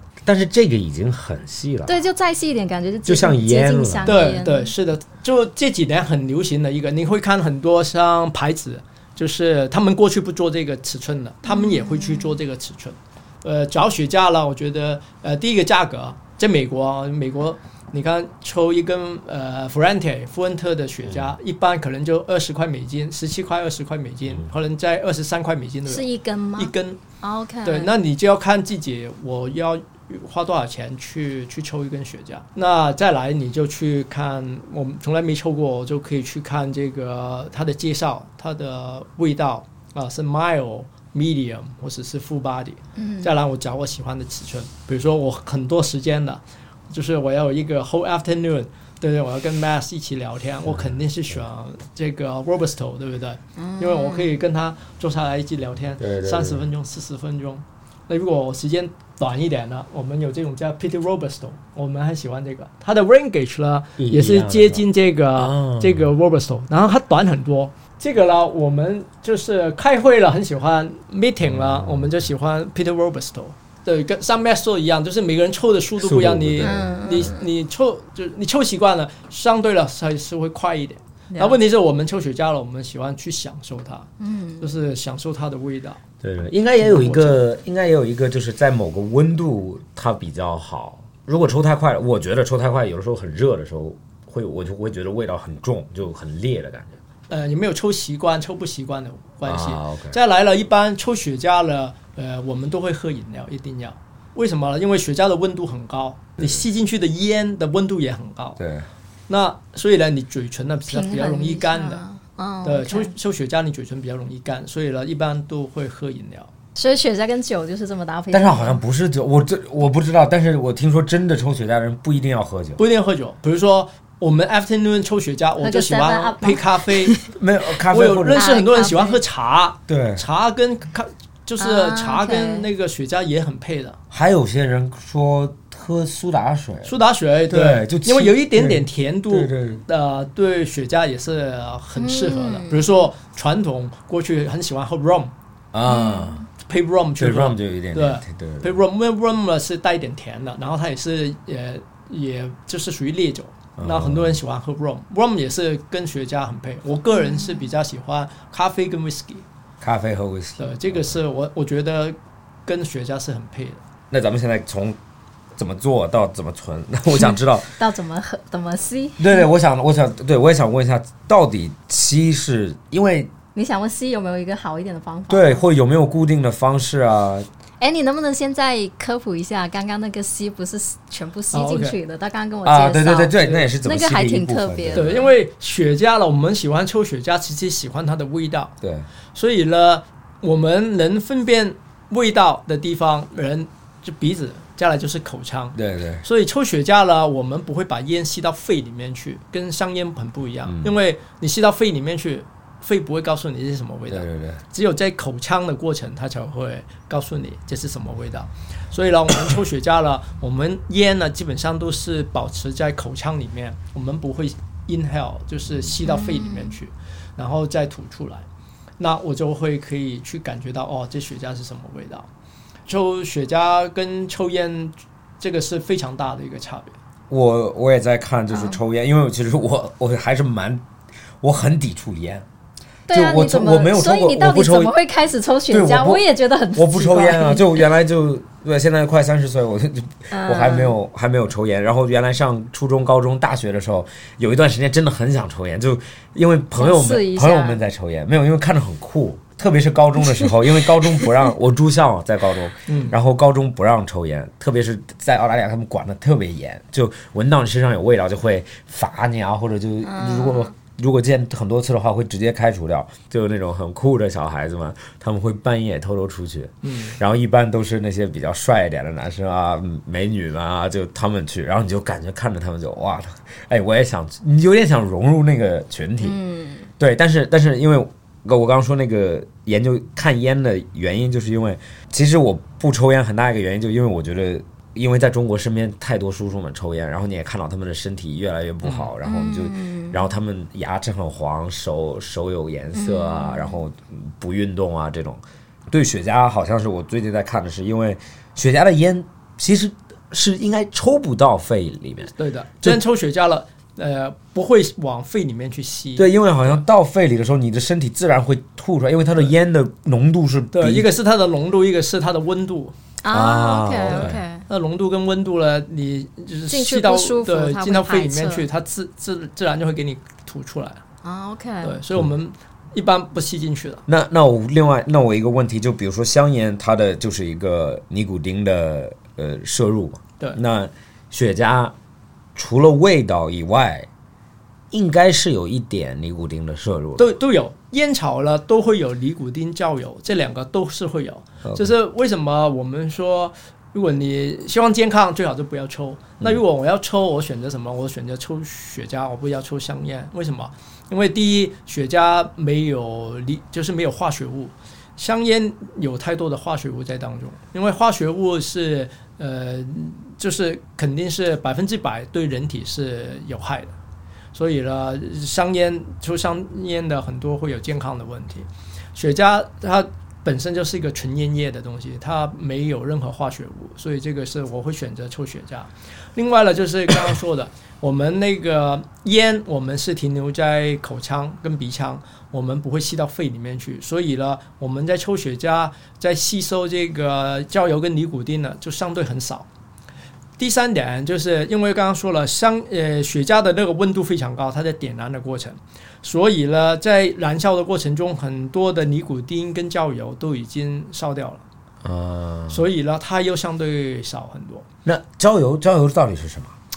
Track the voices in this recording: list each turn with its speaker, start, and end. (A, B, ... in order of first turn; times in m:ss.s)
0:00.2-0:02.0 A
0:01.9-0:04.7 B
0:03.1-0:04.4 A
0:04.1-0:26.0 C
0:11.4-0:12.4 B
0:21.0-0:21.4 A
0:25.9-0:27.9 B
0:26.6-0:27.0 C
0:27.6-1:24.1 C
0:43.0-0:43.3 B
0:50.7-0:51.0 A
0:53.6-0:54.3 B
0:56.0-0:56.7 A
1:04.0-1:04.8 A
1:05.4-1:06.1 A
1:11.4-1:12.1 A
1:16.0-1:17.3 A
1:16.6-1:17.4 B
1:21.3-1:21.6 B
1:24.2-1:24.7 B
1:24.6-1:26.0 C
1:26.2-1:37.0 A
1:26.8-1:27.4 C
1:37.3-1:48.6 C
1:39.4-1:40.2 A
1:46.4-1:46.6 A
1:48.6-1:48.9 A
1:49.3-1:52.0 C
1:50.9-1:53.1 B
1:52.6-1:56.5 C
1:56.8-1:58.8 B
1:58.3-2:02.8 A
2:02.8-2:07.2 C
2:05.6-2:07.3 B
2:07.3-2:08.4 A
2:07.9-2:14.0 C
2:08.3-2:09.2 B
2:09.9-2:10.2 A
2:11.6-2:12.7 B
2:14.1-2:16.9 A
2:16.8-2:25.3 C
2:17.5-2:19.8 A
2:22.0-2:22.9 B
2:25.7-2:26.5 A
2:25.9-2:26.4 B
2:26.6-2:39.4 C
2:27.2-2:28.8 A
2:33.8-2:34.4 A
2:37.1-2:37.7 B
2:39.8-2:41.2 A
2:40.6-2:43.8 C
2:44.1-2:45.0 A
2:45.6-2:47.8 A
2:47.8-2:49.5 B
2:49.2-2:53.3 A
2:53.6-2:55.6 B
2:55.3-2:57.5 A
2:57.8-3:05.3 B
3:01.5-3:02.0 C
3:02.6-3:05.2 A
3:04.9-3:08.7 C
3:08.8-3:09.1 A
3:09.3-3:38.5 C
3:15.8-3:16.2 A
3:20.6-3:20.9 A
3:24.1-3:24.6 A
3:36.0-3:36.8 B
3:39.0-3:42.3 C
3:42.9-3:47.0 C
3:47.3-3:50.8 A
3:48.5-3:48.8 B
3:51.4-3:52.5 A
3:53.1-3:57.8 B
3:53.1-3:54.9 A
3:55.7-4:36.4 A
4:00.3-4:01.0 B
4:06.8-4:07.8 B
4:12.9-4:13.2 C
4:20.0-4:20.7 B
4:26.8-4:27.2 C
4:36.2-4:36.9 B
4:37.0-5:03.0 A
4:48.8-4:49.1 C
4:49.2-4:50.2 B
4:52.9-4:53.8 B
5:02.4-5:06.8 C
5:06.2-5:11.1 A
5:10.7-5:12.9 C
5:13.2-5:14.6 B
5:13.3-5:14.4 A
5:14.1-5:21.0 C
5:16.7-5:18.6 B
5:21.2-5:22.0 B
5:21.8-5:24.0 C
5:24.1-5:31.9 A
5:32.6-5:34.1 A
5:34.9-5:37.4 A
5:37.2-6:03.9 C
5:41.6-5:41.9 A
6:04.5-6:29.7 C
6:30.6-6:41.6 C
6:42.0-6:42.8 A
6:42.7-6:44.9 C
6:45.0-6:46.7 A